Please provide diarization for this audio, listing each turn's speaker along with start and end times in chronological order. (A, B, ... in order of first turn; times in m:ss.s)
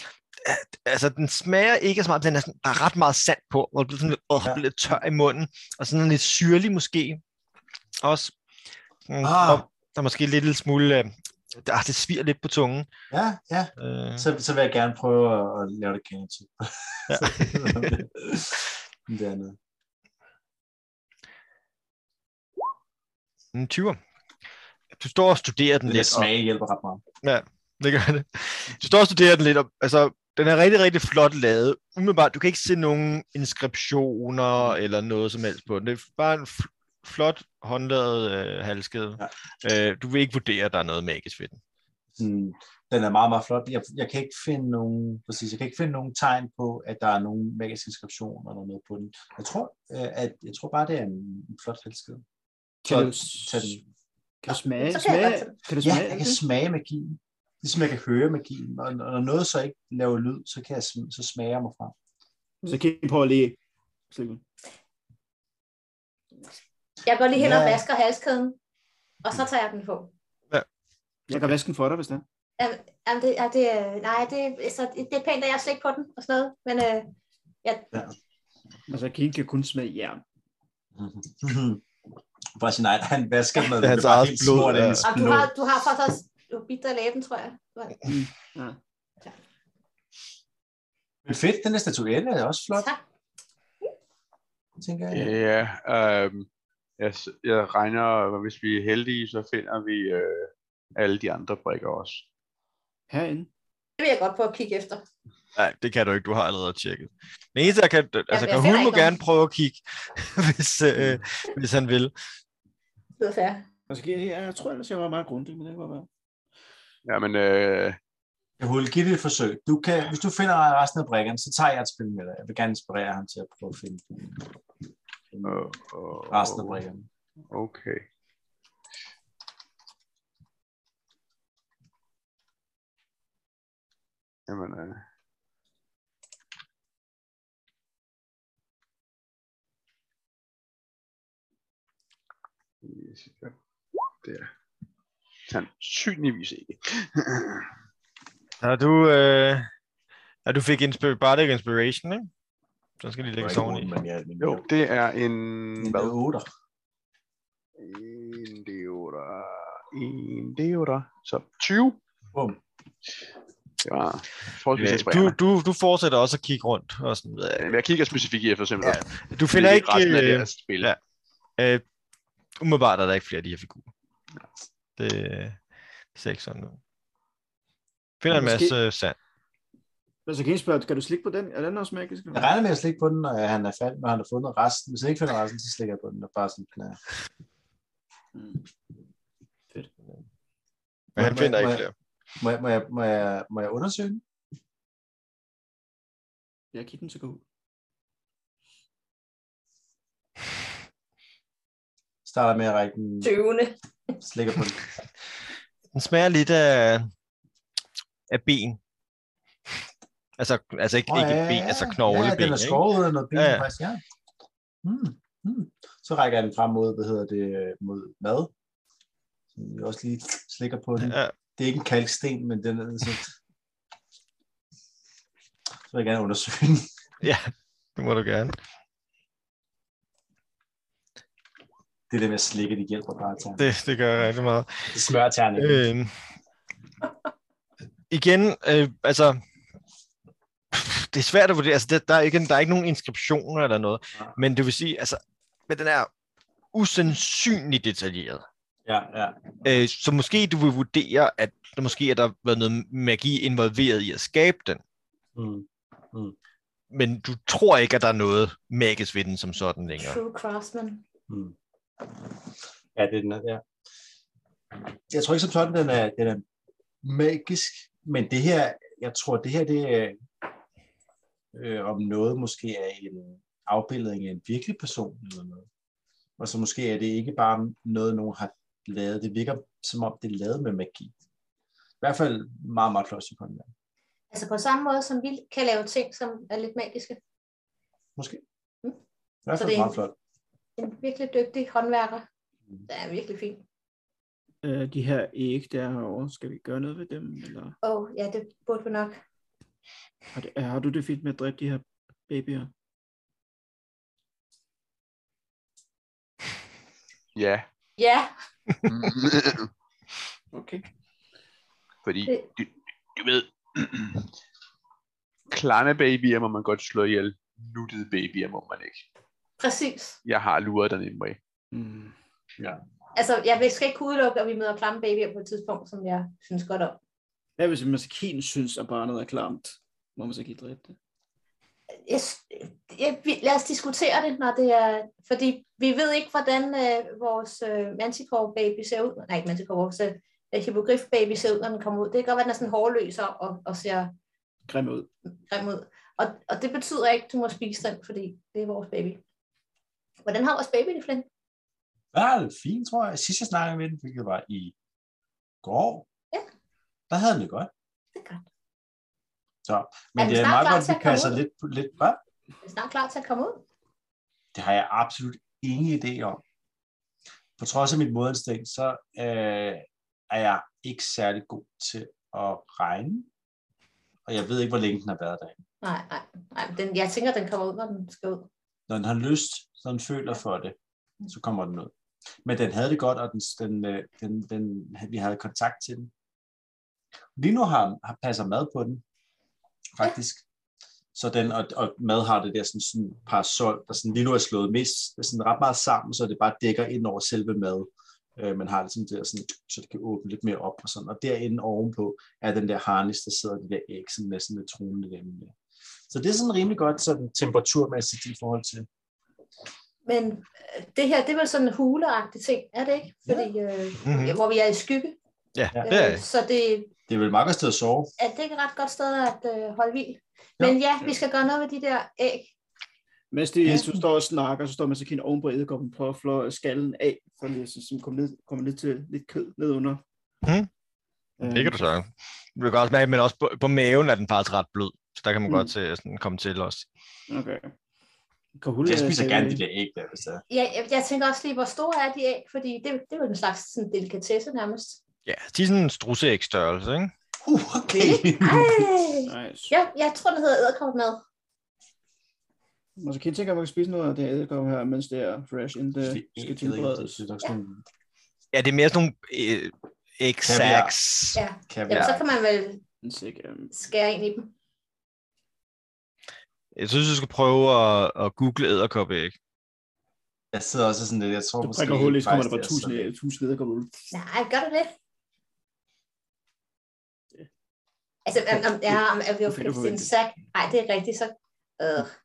0:00.4-0:07.2 A
0:08.0-0:08.3 A
0:09.1-0:12.9 A
0:09.2-0:09.6 B
0:13.1-0:19.6 B
0:13.8-0:14.3 A
0:17.1-0:18.0 A
0:23.5-0:24.0 A
0:25.0-0:26.3 A
0:25.9-0:27.0 B
0:27.2-0:41.6 A
0:42.2-0:52.2 B
0:52.8-0:53.8 C
0:52.8-0:53.8 B
0:54.4-0:56.4 C
0:54.5-0:55.6 D
0:55.8-1:01.9 B
1:02.6-1:03.6 C
1:04.1-1:04.4 C
1:07.0-1:08.6 D
1:07.3-1:07.8 B
1:09.2-1:10.1 D
1:11.3-1:12.2 C
1:12.6-1:17.9 D
1:18.9-1:20.2 C
1:21.0-1:21.8 B
1:22.6-1:25.5 B
1:23.7-1:25.1 A
1:25.0-1:28.0 D
1:28.1-1:28.8 C
1:31.2-1:32.9 B
1:32.7-1:33.0 D
1:34.8-1:35.3 B
1:35.1-1:36.5 E
1:37.0-1:42.2 E
1:43.1-1:43.5 C
1:44.0-1:45.0 D
1:45.6-1:52.1 A
1:48.3-1:49.2 D
1:53.2-1:53.6 D
1:53.9-1:56.1 C
1:57.0-1:58.0 E
1:58.6-2:04.4 B
2:05.3-2:05.7 B
2:05.4-2:06.8 E
2:06.3-2:07.1 B
2:07.5-2:08.0 E
2:14.5-2:15.0 E
2:22.8-2:23.6 E
2:24.2-2:24.5 E
2:25.5-2:27.7 E
2:28.6-2:29.7 A
2:30.5-2:32.3 A
2:33.0-2:33.9 A
2:33.4-2:34.7 B
2:34.4-2:36.2 E
2:35.8-2:36.5 B
2:37.8-2:42.0 E
2:42.3-2:42.6 B
2:43.8-2:45.4 E
2:44.8-2:47.8 A
2:47.6-2:50.9 E
2:48.8-2:51.0 A
2:51.6-2:51.8 A
2:52.6-2:53.9 A
2:55.0-2:55.6 A
2:56.1-2:56.8 A
2:58.2-2:59.2 A
2:58.3-2:58.8 C
3:00.3-3:02.5 C
3:02.3-3:07.0 B
3:08.3-3:08.6 C
3:11.2-3:11.9 A
3:11.2-3:11.8 B
3:12.4-3:14.2 B
3:16.7-3:17.4 C
3:22.2-3:23.3 B
3:23.2-3:24.2 D
3:24.2-3:24.8 B
3:25.9-3:27.1 A
3:28.3-3:28.8 A
3:30.4-3:33.7 A
3:31.1-3:34.0 B
3:34.8-3:38.5 B
3:39.5-3:43.3 B
3:41.0-3:41.3 A
3:45.9-3:46.9 B
3:47.2-3:48.6 A
3:52.1-3:53.7 B
3:53.6-3:54.9 A
3:54.9-3:55.9 B
3:55.6-3:56.1 A
3:58.1-3:59.4 A
4:00.7-4:06.1 A
4:06.7-4:08.4 A
4:08.9-4:09.4 B
4:09.6-4:14.8 A
4:15.4-4:16.4 B
4:16.9-4:20.2 A
4:20.0-4:21.0 D
4:21.3-4:21.6 B
4:23.0-4:23.6 B
4:25.1-4:26.4 B
4:27.0-4:30.2 B
4:31.5-4:35.7 B
4:36.4-4:41.1 B
4:42.0-4:43.7 B
4:44.3-4:47.2 D
4:48.2-4:48.4 B
4:49.5-4:50.2 B
4:49.6-4:50.0 D
4:50.8-4:52.3 D
4:52.9-4:53.6 D
4:54.6-4:57.8 C
4:57.8-4:59.2 D
5:00.3-5:02.7 C
5:07.4-5:07.7 E
5:08.0-5:08.3 D
5:08.9-5:09.7 E
5:10.5-5:10.8 C
5:12.0-5:14.3 E
5:15.5-5:19.0 E
5:19.6-5:20.2 D
5:20.2-5:21.4 E
5:21.7-5:22.2 C
5:23.1-5:27.0 D
5:27.6-5:31.0 C
5:32.0-5:44.1 D
5:44.7-5:45.1 C
5:45.5-5:49.2 D
5:50.3-5:51.3 D
5:52.1-5:54.7 B
5:55.6-5:56.1 B
5:57.1-5:57.7 B
5:58.2-5:58.4 D
5:59.6-6:02.2 B
6:00.2-6:01.4 D
6:02.6-6:03.6 D
6:04.5-6:06.4 B
6:07.6-6:13.3 B
6:14.3-6:15.6 B
6:15.8-6:18.5 D
6:18.9-6:20.8 B
6:21.3-6:21.9 B
6:22.4-6:26.1 B
6:27.4-6:29.0 B
6:30.0-6:30.4 B
6:31.1-6:45.6 B
6:46.1-6:48.9 B
6:50.1-6:55.2 D
6:54.0-6:54.4 A
6:55.6-6:56.2 A
6:55.9-6:56.9 D
6:57.1-6:58.1 B
6:58.2-7:02.5 D
7:03.3-7:10.0 C
7:10.4-7:10.7 A
7:11.4-7:11.8 C
7:11.4-7:16.9 A
7:15.5-7:15.7 C
7:17.3-7:17.7 C
7:18.6-7:19.6 C
7:18.8-7:20.4 B
7:20.5-7:25.0 D
7:25.3-7:27.1 A
7:27.4-7:28.9 B
7:28.0-7:31.2 D
7:29.3-7:29.7 C
7:33.0-7:37.2 C
7:36.0-7:37.8 B
7:38.5-7:42.2 A
7:40.4-7:41.0 B
7:41.4-7:42.8 D
7:41.7-7:42.2 B
7:43.0-7:43.7 C
7:43.7-7:44.5 D
7:46.8-7:49.4 A
7:50.5-7:53.1 B
7:51.6-7:54.1 C
7:54.1-7:54.9 D
7:58.3-8:02.1 D
7:58.9-8:00.1 C